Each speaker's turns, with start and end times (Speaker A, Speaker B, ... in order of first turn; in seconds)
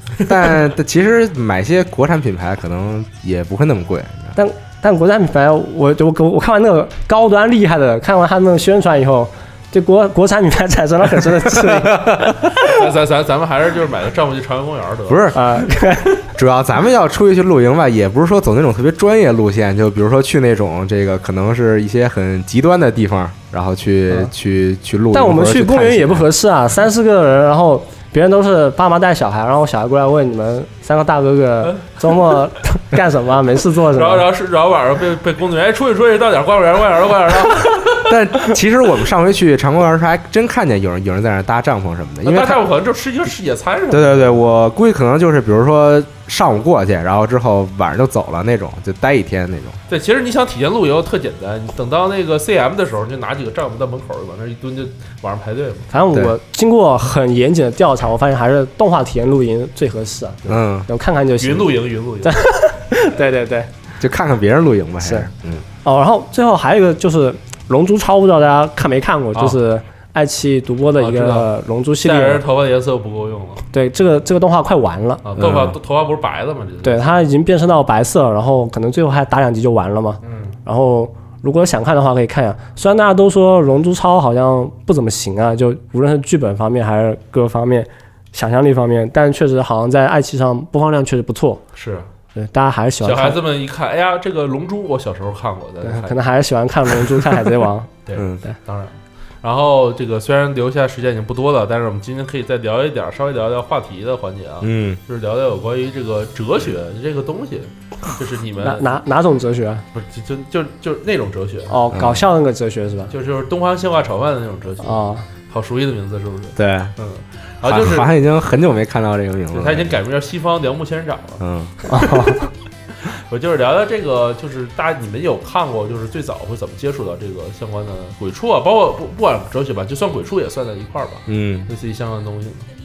Speaker A: 0.2-4.3, 11.5-12.3, 15.1-15.4, 16.4-26.3, 38.0-42.6, 43.9-49.8, 60.5-60.9, 64.0-65.6, 75.4-75.8, 98.1-98.4, 104.6-105.0, 111.9-112.2, 116.6-116.9, 117.6-119.9, 121.4-121.7, 131.3-131.7
Speaker B: 4.3-12.7, 15.3-16.3, 25.1-34.2, 55.9-63.7, 65.0-65.3, 65.8-72.4, 73.7-75.6, 76.8-91.6, 92.3-93.4, 95.8-97.9, 108.6-109.8, 111.7-113.1, 114.8-115.2, 121.9-122.5
Speaker C: 12.6-15.4, 31.6-32.4, 33.9-38.1, 42.2-44.5, 49.9-55.9, 61.4-62.4, 71.0-71.5, 72.0-73.6, 75.2-77.3, 80.2-80.5, 91.8-92.1, 93.0-96.2, 98.0-109.0, 109.9-111.8, 113.1-118.1, 119.5-122.3, 123.0-132.7